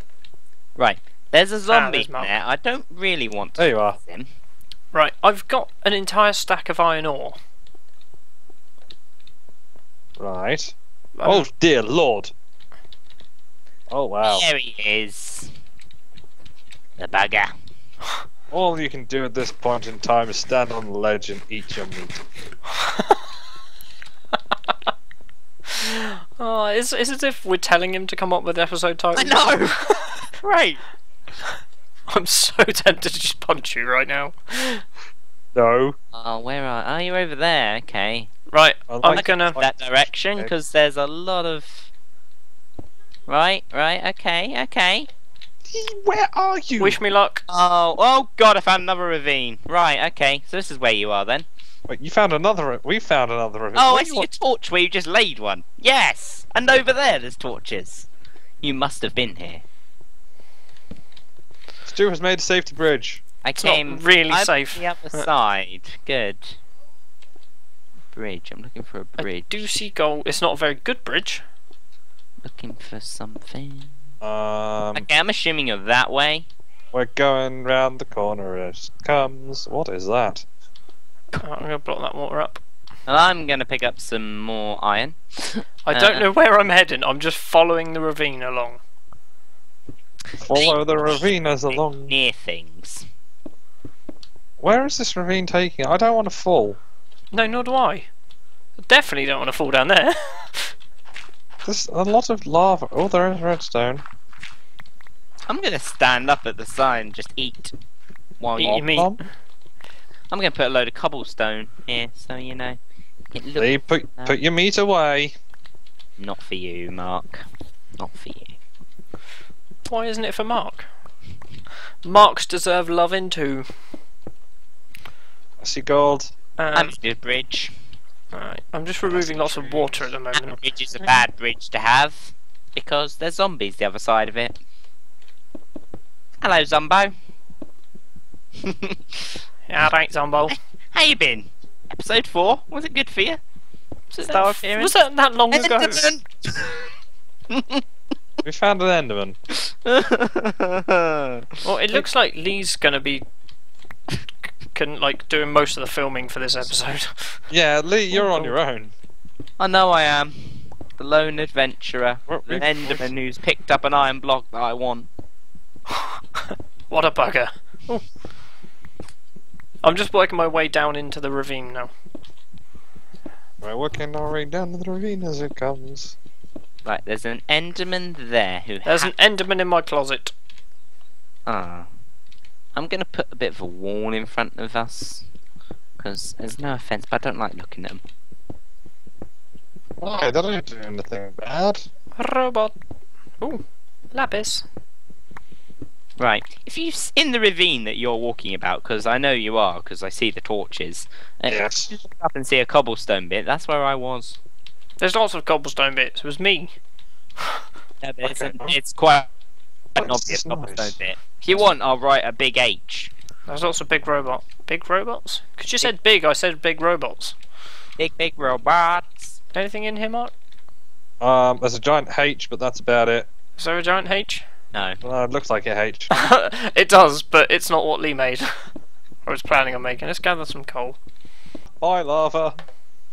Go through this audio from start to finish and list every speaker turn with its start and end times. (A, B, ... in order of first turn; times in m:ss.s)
0:00.8-0:04.3 A
0:01.7-0:02.3 B
0:03.6-0:04.0 C
0:04.9-0:07.4 B
0:10.2-0:12.3 C
0:11.2-0:11.5 B
0:13.9-0:14.4 C
0:14.3-0:15.5 A
0:17.0-0:17.5 A
0:18.5-0:22.2 C
0:22.9-0:23.1 B
0:25.7-0:30.2 B
0:29.2-0:29.8 A
0:30.4-0:30.8 A
0:32.1-0:34.8 B
0:35.6-0:36.0 C
0:36.1-0:38.3 A
0:38.5-0:39.6 B
0:38.9-0:40.5 C
0:39.0-0:41.9 A
0:43.3-0:45.1 A
0:45.7-0:47.0 C
0:46.8-0:47.4 B
0:47.5-0:51.5 A
0:51.9-0:54.3 C
0:53.8-0:58.1 A
0:58.6-0:59.6 A
1:01.8-1:03.2 C
1:03.4-1:06.6 A
1:03.6-1:05.3 B
1:08.1-1:09.8 A
1:09.2-1:11.4 B
1:12.4-1:13.9 A
1:14.2-1:15.1 C
1:15.0-1:16.5 A
1:16.9-1:20.5 C
1:21.4-1:22.6 B
1:23.1-1:26.3 A
1:25.8-1:28.8 B
1:30.4-1:32.1 C
1:30.5-1:33.0 A
1:34.6-1:36.8 C
1:37.3-1:38.1 B
1:38.8-1:40.7 B
1:41.6-1:44.0 C
1:45.5-1:47.7 A
1:48.4-1:48.8 A
1:48.6-1:49.3 B
1:48.6-1:49.2 C
1:50.3-1:52.8 A
1:53.3-1:54.4 A
1:53.6-1:55.3 C
1:56.2-1:57.4 A
1:58.0-1:58.5 A
1:59.9-2:00.9 B
2:02.0-2:03.7 B
2:05.6-2:06.3 C
2:06.6-2:06.9 B
2:06.8-2:07.7 A
2:08.3-2:10.6 B
2:09.0-2:10.1 C
2:10.3-2:14.6 A
2:16.4-2:17.1 A
2:18.6-2:19.2 A
2:19.7-2:20.6 B
2:20.5-2:23.4 A
2:24.1-2:25.0 A
2:24.2-2:26.1 B
2:25.5-2:26.9 A
2:27.5-2:27.8 A
2:28.4-2:29.4 C
2:29.7-2:32.1 A
2:31.6-2:33.2 B
2:34.7-2:37.4 B
2:37.5-2:38.9 C
2:38.1-2:38.6 B
2:39.6-2:45.1 A
2:42.3-2:43.1 C
2:46.9-2:48.0 B
2:49.8-2:51.9 B
2:53.6-2:56.2 C
2:56.8-2:59.1 A
2:58.8-3:00.3 B
3:01.5-3:01.9 A
3:02.8-3:05.2 A
3:06.0-3:08.0 A
3:10.0-3:11.9 C
3:12.2-3:12.8 B
3:13.4-3:14.7 B
3:16.2-3:24.4 A
3:21.5-3:21.9 C
3:25.0-3:26.8 B
3:28.0-3:29.3 A
3:28.2-3:28.8 C
3:30.0-3:33.1 A
3:30.0-3:31.0 C
3:33.5-3:37.4 B
3:38.0-3:39.4 A
3:39.5-3:40.3 B
3:41.2-3:43.3 C
3:43.6-3:44.4 B
3:44.7-3:45.0 A
3:45.0-3:46.2 C
3:46.1-3:48.5 B
3:49.3-3:51.0 B
3:51.8-3:52.6 C